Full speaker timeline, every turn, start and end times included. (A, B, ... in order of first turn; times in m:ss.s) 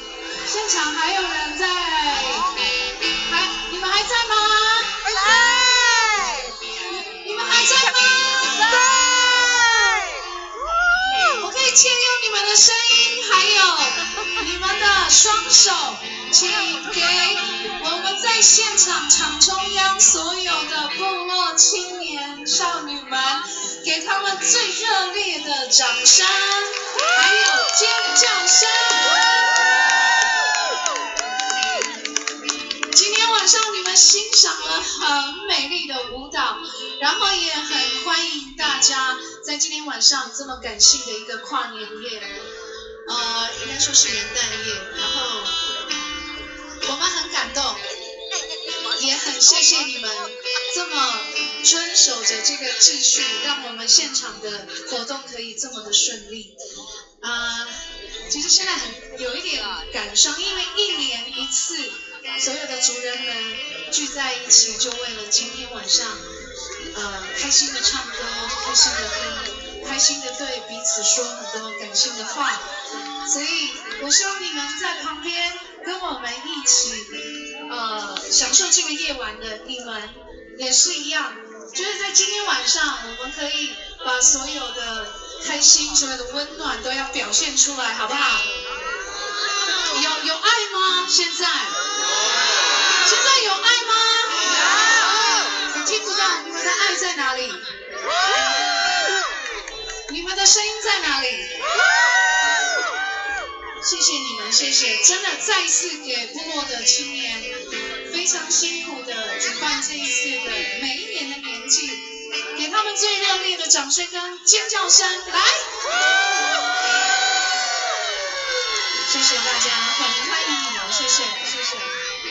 0:00.4-0:06.5 A
0:07.0-0:09.8 A
0:11.2-0:29.6 A
0:32.9-0:42.3 A
0:43.1-0:45.6 A
0:46.8-0:47.8 A
0:48.9-0:56.6 A
0:57.2-1:06.2 A
1:06.9-1:12.7 A
1:13.2-1:28.5 A
1:29.9-1:31.8 A
1:33.0-1:37.7 A
1:38.3-1:38.7 A
1:40.1-1:41.6 A
1:43.8-1:55.8 A
1:59.0-2:02.0 A